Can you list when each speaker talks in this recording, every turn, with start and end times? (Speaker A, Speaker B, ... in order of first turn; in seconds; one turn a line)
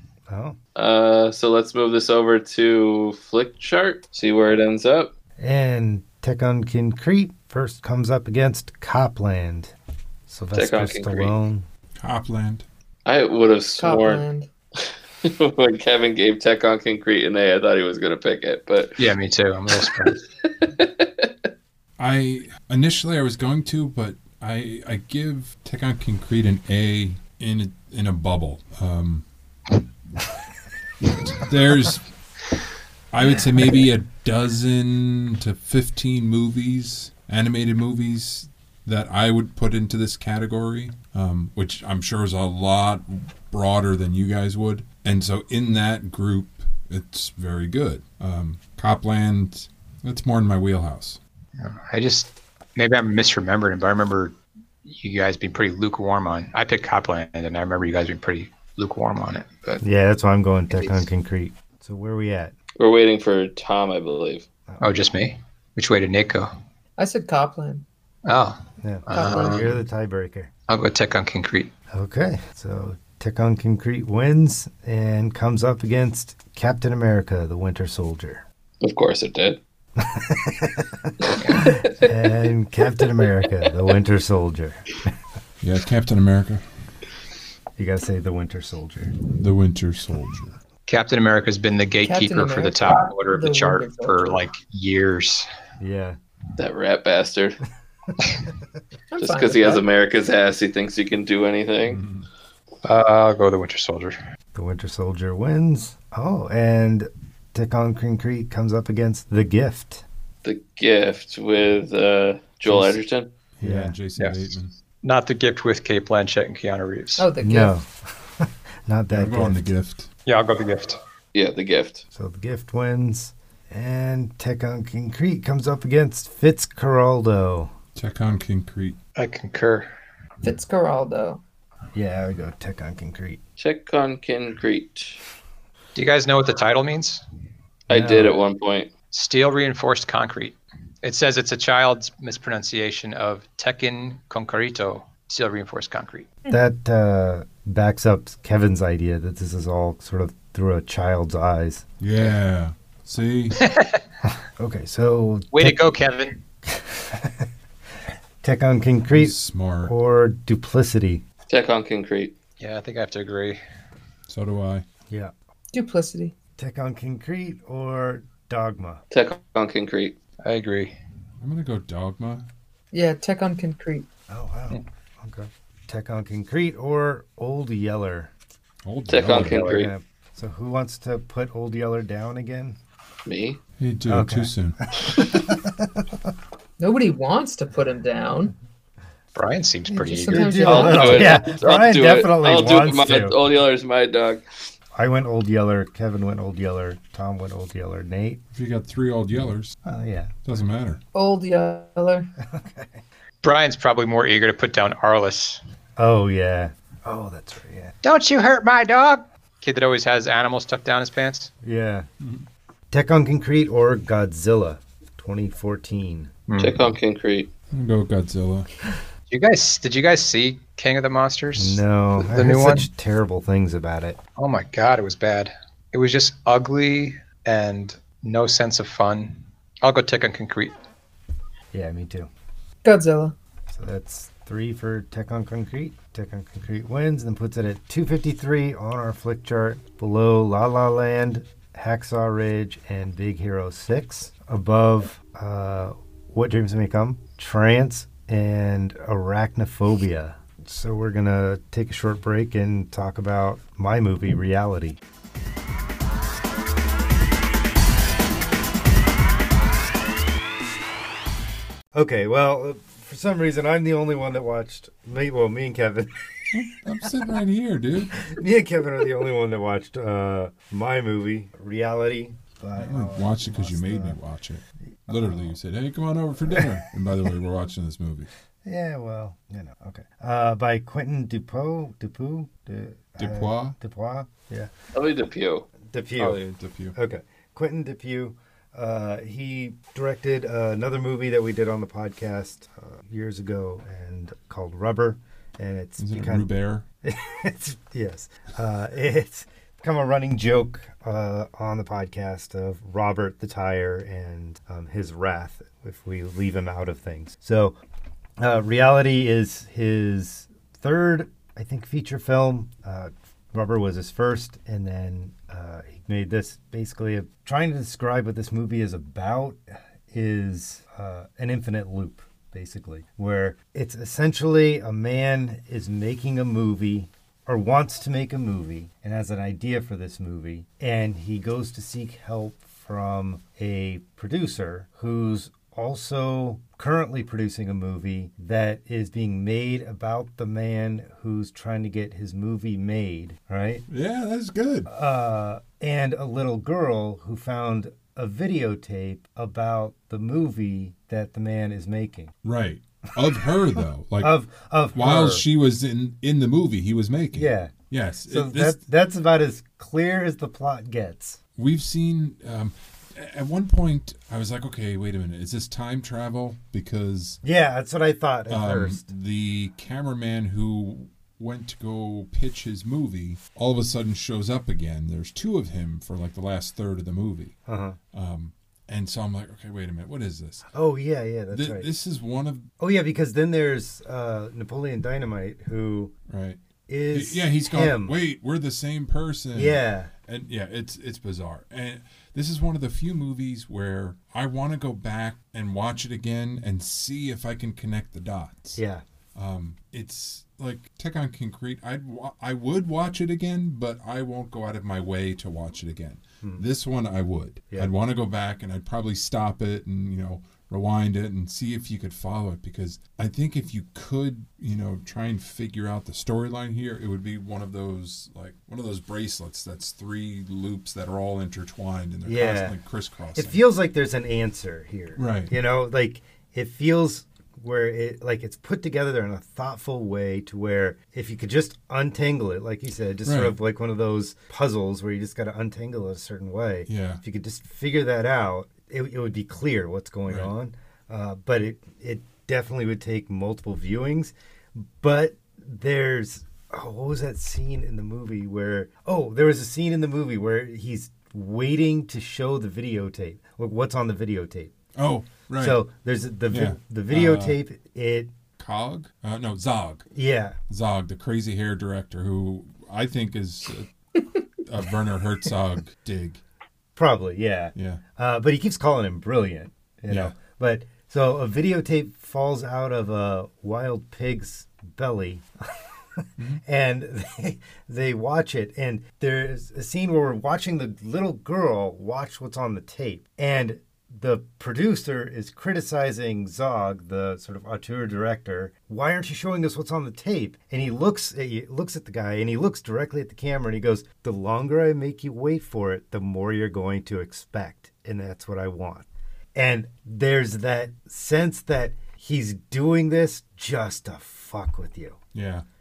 Speaker A: 0.3-0.6
Speaker B: 0.8-5.1
Speaker A: 5.4-9.7
Speaker A: 10.3-11.7
Speaker B: 10.5-11.3
Speaker C: 12.0-12.6
Speaker B: 13.1-14.2
Speaker D: 13.8-14.5
Speaker B: 14.8-19.0
Speaker E: 19.0-20.2
Speaker B: 20.4-21.3
Speaker C: 22.0-29.2
Speaker C: 31.0-32.0
Speaker C: 33.1-51.2
Speaker E: 51.6-59.8
Speaker A: 59.8-62.5
Speaker B: 62.8-64.5
Speaker E: 64.8-66.5
Speaker D: 67.0-67.8
Speaker E: 68.2-69.7
Speaker A: 68.8-70.5
Speaker D: 69.1-69.6
Speaker E: 70.7-71.7
Speaker A: 71.9-78.4
Speaker B: 78.8-79.6
Speaker A: 80.0-85.1
Speaker B: 81.2-82.1
Speaker C: 85.6-86.6
Speaker A: 87.8-89.1
Speaker C: 89.3-90.5
Speaker E: 90.9-95.5
Speaker D: 92.0-94.4
Speaker A: 95.8-96.2
Speaker B: 96.6-97.6
Speaker D: 99.1-99.8
Speaker B: 99.2-102.0
Speaker C: 101.8-102.3
Speaker E: 102.8-104.2
Speaker A: 104.5-110.0
Speaker B: 110.4-113.3
Speaker C: 113.6-114.7
Speaker A: 113.6-113.9
Speaker E: 114.2-114.5
Speaker E: 115.0-117.3
Speaker D: 117.2-117.8
Speaker A: 117.4-119.6
Speaker C: 119.1-120.1
Speaker E: 120.2-121.0
Speaker B: 121.3-122.0
Speaker A: 122.1-127.7
Speaker C: 127.9-129.0
Speaker E: 129.2-129.9
Speaker D: 130.4-131.4
Speaker A: 131.9-133.4
Speaker B: 133.6-135.2
Speaker E: 135.9-137.2
Speaker A: 137.9-138.3
Speaker B: 137.9-138.9
Speaker E: 139.1-146.3
Speaker A: 146.5-151.8
Speaker C: 152.0-153.6
Speaker E: 153.6-154.0
Speaker A: 154.6-155.9
Speaker E: 155.5-156.4
Speaker A: 156.7-157.5
Speaker A: 158.4-159.3
Speaker C: 159.1-159.9
Speaker A: 159.8-161.2
Speaker B: 161.5-162.3
Speaker E: 162.6-163.6
Speaker C: 164.3-164.8
Speaker D: 165.7-166.3
Speaker A: 166.6-169.0
Speaker B: 169.1-170.2
Speaker E: 170.4-170.9
Speaker C: 171.4-172.4
Speaker D: 172.9-174.1
Speaker A: 174.3-178.3
Speaker C: 178.8-179.7
Speaker B: 179.1-179.9
Speaker A: 179.4-182.8
Speaker B: 183.2-183.6
Speaker C: 183.8-184.8
Speaker A: 184.1-186.1
Speaker D: 186.8-188.5
Speaker E: 189.3-191.2
Speaker A: 189.9-193.3
Speaker D: 190.1-191.4
Speaker B: 190.6-194.4
Speaker A: 194.9-198.4
Speaker C: 198.5-199.8
Speaker A: 199.8-200.4
Speaker C: 200.4-201.0
Speaker D: 201.1-202.3
Speaker A: 202.4-203.0
Speaker E: 203.4-205.6
Speaker A: 206.0-207.9
Speaker E: 208.0-211.5
Speaker A: 211.6-212.1
Speaker C: 212.2-212.4
Speaker A: 212.9-216.3
Speaker E: 216.5-216.8
Speaker B: 216.6-217.5
Speaker C: 217.7-218.7
Speaker E: 219.3-222.8
Speaker A: 221.6-224.2
Speaker E: 224.4-230.7
Speaker A: 231.7-232.3
Speaker D: 232.8-233.3
Speaker A: 233.7-255.0
Speaker A: 261.9-266.1
Speaker C: 266.5-268.3
Speaker A: 268.1-274.2
Speaker C: 272.8-278.3
Speaker A: 275.1-275.6
Speaker A: 276.5-276.8
Speaker A: 278.6-284.7
Speaker C: 283.2-283.8
Speaker B: 284.9-285.7
Speaker A: 285.8-286.4
Speaker C: 286.2-286.9
Speaker A: 286.9-296.5
Speaker C: 296.0-296.8
Speaker A: 297.0-307.8
Speaker A: 308.4-343.8
Speaker C: 343.9-344.9
Speaker A: 344.9-352.3
Speaker C: 352.4-354.3
Speaker A: 354.2-355.4
Speaker C: 354.9-358.8
Speaker A: 357.3-357.8
Speaker A: 358.3-361.4
Speaker C: 361.6-367.4
Speaker A: 367.4-369.1
Speaker C: 368.5-377.6
Speaker A: 377.7-378.0
Speaker C: 378.1-380.7
Speaker A: 380.7-381.9
Speaker C: 381.5-382.7
Speaker A: 382.8-386.1
Speaker C: 386.3-386.6
Speaker A: 386.9-388.2
Speaker C: 387.1-398.8
Speaker A: 389.5-390.1
Speaker A: 398.8-399.0
Speaker C: 399.3-423.6
Speaker A: 422.2-422.8
Speaker A: 423.4-454.7
Speaker C: 425.1-425.5
Speaker C: 433.2-433.5
Speaker C: 436.9-437.2
Speaker C: 454.9-455.8
Speaker A: 455.5-458.3
Speaker C: 456.5-457.6
Speaker C: 458.6-460.1
Speaker A: 460.1-460.6
Speaker C: 460.7-463.9
Speaker C: 464.6-466.4
Speaker A: 466.9-505.2
Speaker C: 467.7-468.0
Speaker C: 470.1-470.4
Speaker C: 505.3-505.6